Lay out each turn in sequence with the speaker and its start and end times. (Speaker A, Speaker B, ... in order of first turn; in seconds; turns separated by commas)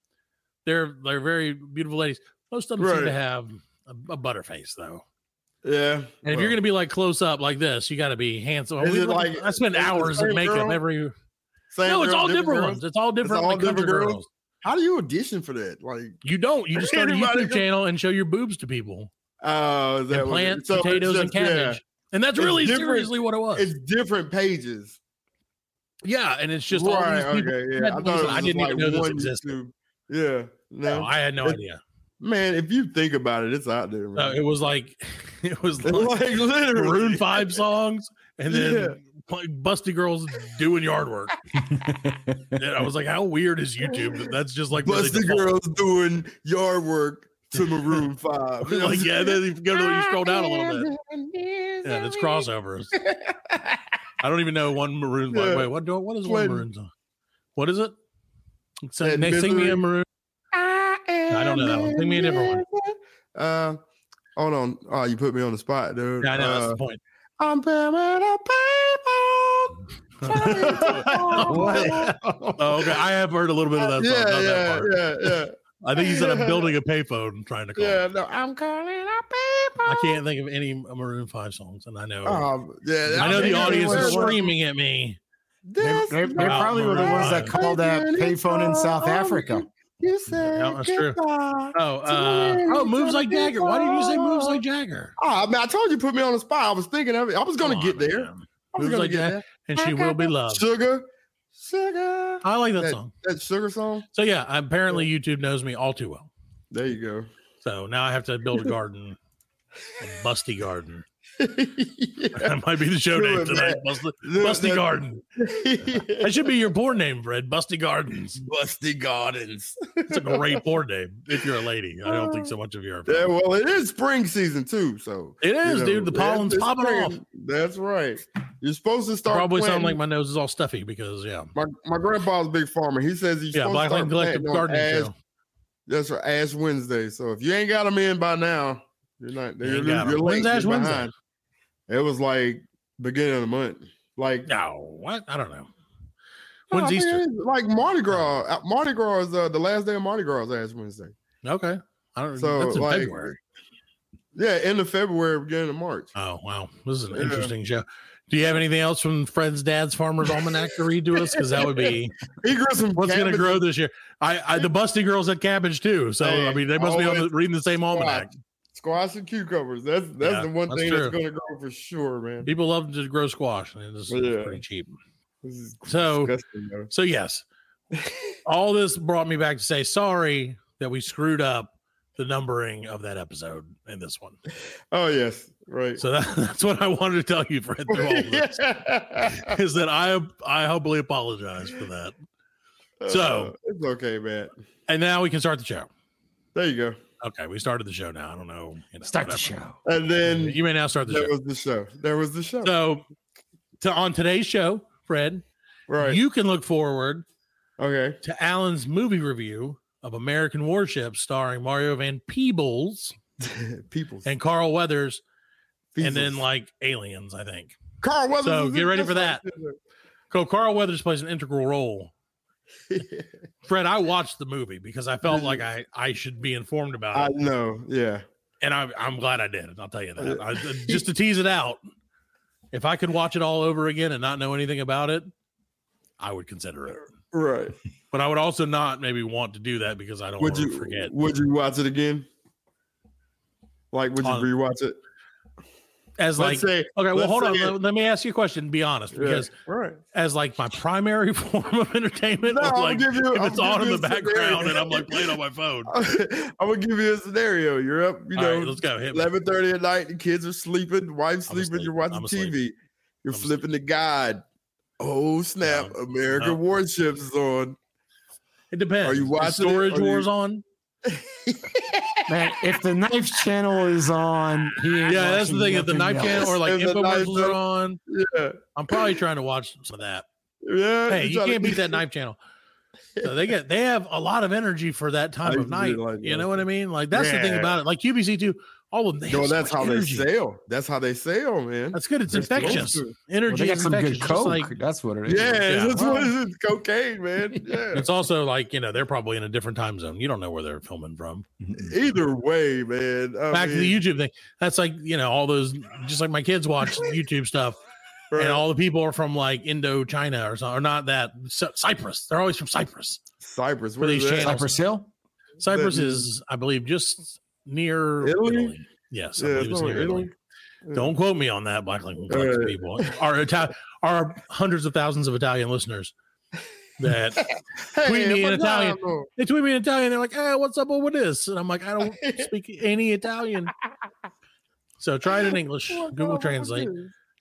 Speaker A: 0.7-5.0, Speaker B: 2.8-3.2, Speaker B: 5.6-6.6, Speaker A: 6.2-11.1, Speaker B: 8.8-10.8, Speaker B: 11.7-16.2, Speaker A: 11.9-14.3, Speaker A: 16.2-19.1, Speaker B: 16.7-17.7, Speaker B: 19.4-21.8, Speaker A: 20.1-23.7, Speaker B: 22.4-25.0, Speaker A: 26.0-29.5, Speaker B: 26.7-31.6, Speaker A: 30.9-31.8, Speaker B: 32.2-34.4, Speaker A: 34.1-41.4, Speaker B: 35.8-37.6, Speaker B: 38.5-39.0, Speaker C: 41.6-42.6, Speaker A: 42.6-45.6, Speaker B: 43.9-44.2, Speaker B: 44.8-53.8, Speaker A: 47.5-48.1, Speaker A: 48.6-50.9, Speaker A: 51.8-53.0, Speaker A: 54.2-56.9, Speaker B: 55.3-55.7, Speaker B: 56.2-56.6, Speaker A: 57.6-58.0, Speaker A: 58.9-60.1, Speaker B: 59.0-59.8, Speaker B: 60.5-63.8, Speaker A: 61.3-62.6, Speaker B: 64.4-66.8, Speaker A: 66.2-67.0, Speaker B: 67.4-73.0, Speaker A: 70.2-78.0, Speaker C: 70.6-72.5, Speaker B: 73.8-76.7, Speaker B: 77.8-80.2, Speaker A: 79.9-82.5, Speaker B: 82.2-84.5, Speaker C: 83.1-84.4, Speaker A: 83.2-85.2, Speaker B: 85.7-94.6, Speaker C: 85.8-89.7, Speaker A: 86.4-87.6, Speaker A: 90.3-91.2, Speaker A: 91.7-95.2, Speaker B: 95.2-104.1, Speaker A: 97.6-100.6, Speaker A: 102.4-103.1, Speaker A: 104.1-106.3, Speaker B: 106.7-107.3, Speaker A: 107.6-109.2, Speaker A: 110.0-111.0, Speaker B: 111.4-112.5, Speaker A: 112.3-115.2, Speaker B: 113.1-116.5, Speaker A: 116.2-118.4, Speaker B: 118.4-120.6, Speaker A: 120.1-123.3, Speaker B: 122.1-122.5, Speaker B: 123.1-130.0, Speaker A: 125.4-127.2, Speaker A: 129.3-131.5, Speaker B: 131.6-135.1, Speaker A: 133.5-135.1, Speaker B: 135.9-141.1, Speaker A: 139.6-141.1, Speaker B: 141.9-144.5, Speaker A: 144.5-145.7, Speaker A: 146.7-147.2, Speaker B: 146.7-151.1, Speaker A: 151.4-153.4, Speaker B: 152.4-153.3, Speaker B: 154.3-156.1, Speaker A: 156.2-162.2, Speaker B: 157.1-157.5, Speaker B: 161.5-163.7, Speaker A: 163.0-168.3, Speaker B: 166.2-167.3, Speaker B: 167.9-172.5, Speaker A: 170.2-171.2, Speaker A: 172.4-174.9, Speaker B: 174.1-174.6, Speaker B: 175.4-176.9, Speaker A: 175.8-176.3, Speaker A: 176.9-177.4, Speaker B: 177.9-178.3, Speaker A: 178.5-184.4, Speaker B: 184.9-186.0, Speaker A: 186.0-188.6, Speaker B: 187.9-189.5, Speaker A: 189.4-192.2, Speaker B: 193.0-194.5, Speaker A: 193.1-193.5, Speaker A: 194.9-195.9, Speaker B: 196.6-197.0, Speaker A: 197.2-199.6, Speaker C: 199.0-199.8, Speaker B: 199.8-202.8, Speaker A: 200.2-201.3, Speaker A: 202.6-203.0, Speaker A: 203.8-205.4, Speaker B: 205.9-206.2, Speaker A: 206.0-207.2, Speaker B: 207.8-208.2, Speaker A: 208.2-213.2, Speaker B: 213.4-214.3, Speaker A: 214.2-215.2, Speaker B: 215.9-216.4, Speaker A: 216.0-217.8, Speaker B: 218.0-219.8, Speaker A: 218.4-219.4, Speaker A: 220.3-222.1, Speaker B: 222.9-223.3, Speaker A: 223.7-227.3, Speaker B: 225.2-225.6, Speaker B: 227.1-228.3, Speaker A: 228.6-231.8, Speaker B: 230.2-231.0, Speaker A: 232.7-235.3, Speaker A: 236.2-237.1, Speaker B: 237.3-237.8, Speaker A: 238.1-241.1, Speaker B: 240.4-242.3, Speaker B: 243.9-245.0, Speaker A: 244.2-244.5, Speaker A: 246.2-249.5, Speaker B: 246.4-247.8, Speaker B: 249.1-250.0, Speaker A: 250.1-255.9, Speaker B: 252.5-255.3, Speaker B: 255.9-264.4, Speaker A: 258.3-259.3, Speaker A: 261.5-262.6, Speaker A: 263.3-263.6, Speaker B: 265.0-267.8, Speaker A: 265.6-266.6, Speaker A: 268.7-270.6, Speaker B: 269.0-270.3, Speaker B: 271.1-272.3, Speaker C: 272.3-276.6, Speaker A: 275.1-278.0, Speaker B: 276.3-279.1, Speaker A: 278.8-280.3, Speaker B: 280.6-282.0, Speaker A: 281.1-282.4, Speaker A: 283.2-290.3, Speaker B: 285.4-287.8, Speaker B: 289.3-293.1, Speaker A: 291.9-294.7, Speaker C: 292.4-292.9, Speaker C: 293.5-296.3, Speaker B: 295.3-298.1, Speaker A: 295.7-296.1, Speaker A: 297.9-301.5, Speaker C: 301.6-302.0, Speaker B: 301.8-304.0, Speaker A: 303.5-307.8, Speaker B: 308.3-308.7, Speaker A: 308.4-313.2, Speaker B: 313.4-314.6, Speaker A: 314.0-314.8, Speaker C: 314.4-315.1, Speaker A: 315.6-320.3, Speaker B: 315.6-316.3, Speaker B: 318.2-318.8, Speaker B: 319.4-320.3, Speaker A: 320.9-326.1, Speaker B: 322.3-323.1, Speaker A: 327.0-327.4, Speaker B: 327.4-329.3, Speaker A: 328.0-333.7, Speaker B: 332.2-332.5, Speaker A: 335.0-336.9, Speaker B: 335.3-337.1